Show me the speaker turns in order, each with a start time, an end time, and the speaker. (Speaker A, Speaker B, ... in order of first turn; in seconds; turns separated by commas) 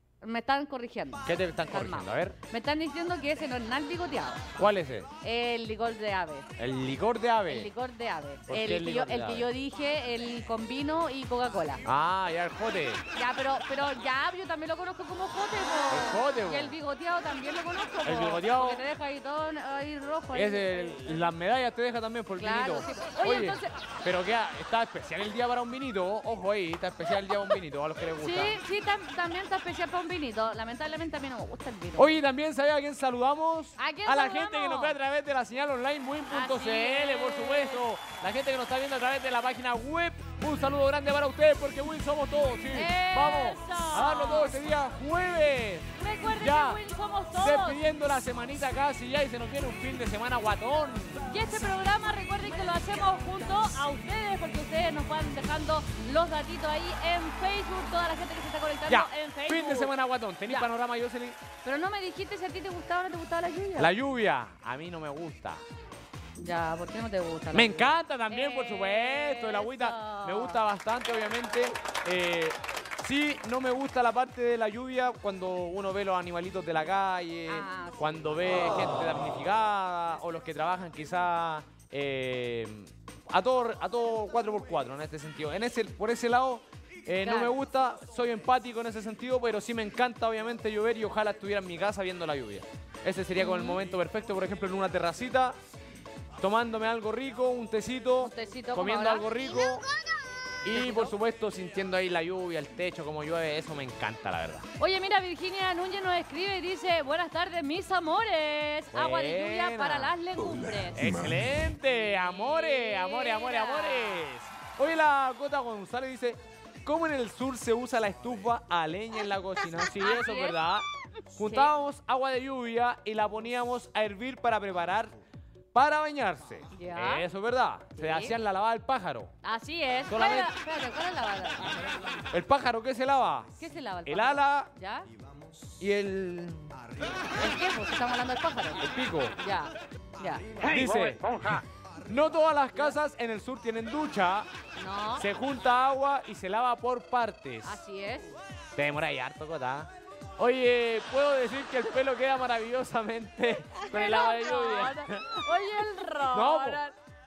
Speaker A: 0.2-4.5, Speaker B: 1.2-2.4, Speaker B: 4.6-5.1, Speaker A: 5.2-6.5, Speaker B: 6.6-7.7, Speaker A: 7.5-11.8, Speaker B: 8.5-9.5, Speaker B: 11.8-13.0, Speaker A: 13.2-21.3, Speaker B: 15.9-16.8, Speaker B: 18.1-18.8, Speaker B: 20.3-28.6, Speaker A: 22.4-23.8, Speaker A: 28.2-32.1, Speaker B: 32.0-46.8, Speaker A: 33.8-35.0, Speaker A: 36.3-37.8, Speaker A: 42.7-44.6, Speaker A: 46.0-47.8, Speaker B: 47.4-51.3, Speaker A: 51.3-59.9, Speaker B: 58.9-61.4, Speaker A: 61.6-63.9, Speaker B: 63.8-65.6, Speaker A: 66.4-70.6, Speaker B: 67.5-95.6, Speaker A: 77.5-79.1, Speaker A: 87.2-87.5, Speaker A: 93.4-93.8, Speaker B: 96.4-99.9, Speaker A: 98.2-99.3, Speaker B: 100.6-104.7, Speaker A: 100.7-101.1, Speaker A: 104.8-111.1, Speaker B: 108.9-110.1, Speaker B: 110.9-125.2, Speaker A: 111.9-114.3, Speaker A: 120.0-120.6, Speaker A: 121.4-121.7, Speaker B: 125.7-129.3, Speaker A: 126.7-127.3, Speaker A: 128.0-128.4, Speaker A: 129.4-132.1, Speaker B: 130.1-130.5, Speaker B: 132.3-133.5, Speaker A: 133.6-135.1, Speaker B: 134.1-134.7, Speaker B: 135.8-136.7, Speaker A: 137.2-138.8, Speaker B: 138.8-139.4, Speaker A: 139.4-140.5, Speaker B: 140.6-141.3, Speaker B: 141.9-144.5, Speaker A: 144.8-145.3, Speaker B: 145.2-147.8, Speaker A: 147.6-148.3, Speaker B: 148.8-156.8, Speaker A: 153.8-157.0